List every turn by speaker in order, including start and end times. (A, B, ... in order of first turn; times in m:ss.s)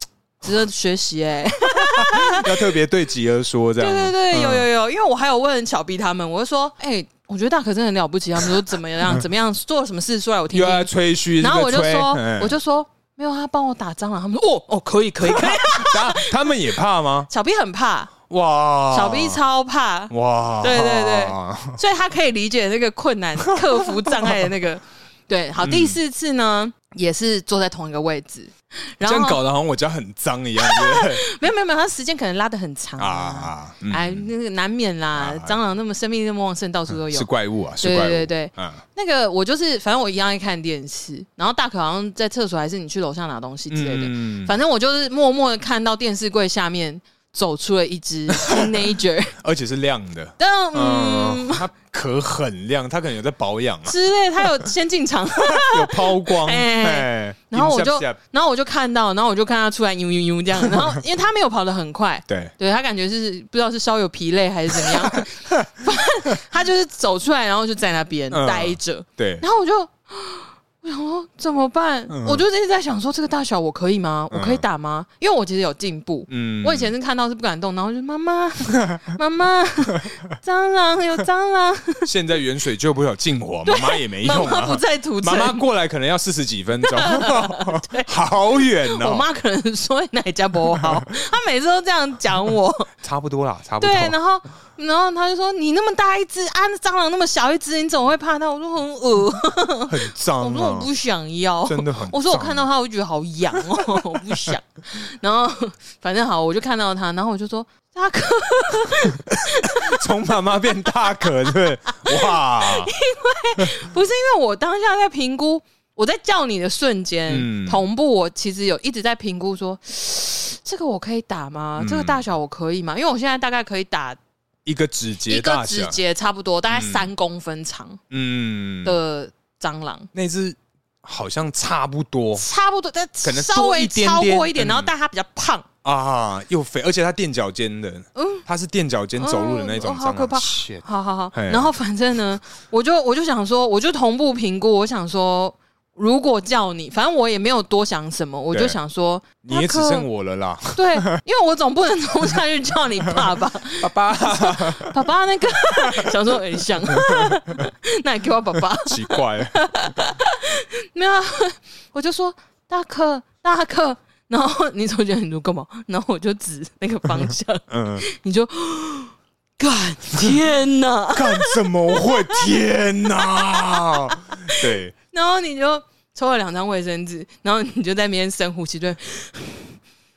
0:00.4-0:02.7 A
0:01.8-0:04.6 B
0:03.8-0:16.5 A
0:10.5-0:12.6 B
0:15.2-0:17.3 B
0:17.3-0:18.1 A
0:18.3-0:19.4 B
0:18.9-0:29.4 A
0:20.1-0:21.8 B
0:23.7-0:24.4 B
0:25.6-0:26.0 B
0:29.0-0:31.2 B
0:30.6-0:37.3 A
0:33.0-0:34.3 B
0:35.1-0:35.6 B
0:37.1-0:38.8 B
0:37.8-0:49.4 A
0:43.7-0:44.6 B
0:48.4-0:48.8 B
0:49.4-0:53.9 B
0:50.4-0:51.6 A
0:53.8-1:22.1 A
0:55.4-0:58.2 B
1:00.6-1:00.9 B
1:02.3-1:02.5 B
1:04.8-1:05.7 B
1:08.3-1:09.4 B
1:12.1-1:12.4 B
1:14.3-1:14.6 B
1:16.3-1:16.9 B
1:22.0-1:29.2 B
1:23.6-1:25.6 A
1:26.8-1:28.1 A
1:28.6-1:32.9 A
1:30.7-1:31.0 B
1:33.0-1:34.2 B
1:33.8-1:50.1 A
1:39.9-1:40.9 B
1:41.6-1:42.6 B
1:43.6-1:44.5 B
1:49.3-1:52.9 B
1:50.6-2:04.2 A
1:57.3-1:57.8 B
2:01.8-2:02.2 B
2:04.6-2:06.0 B
2:05.3-2:08.0 A
2:06.7-2:07.1 B
2:08.1-2:09.0 B
2:08.8-2:10.1 A
2:10.1-2:12.4 B
2:12.4-2:15.7 A
2:13.2-2:14.9 B
2:15.8-2:21.7 B
2:18.2-2:18.4 A
2:19.2-2:30.1 A
2:28.5-2:28.8 B
2:29.4-2:31.1 B
2:30.7-2:52.5 A
2:33.8-2:35.0 B
2:35.8-2:36.2 B
2:36.9-2:37.6 B
2:38.8-2:39.6 B
2:47.7-2:48.0 B
2:51.1-2:54.9 B
2:53.2-2:59.7 A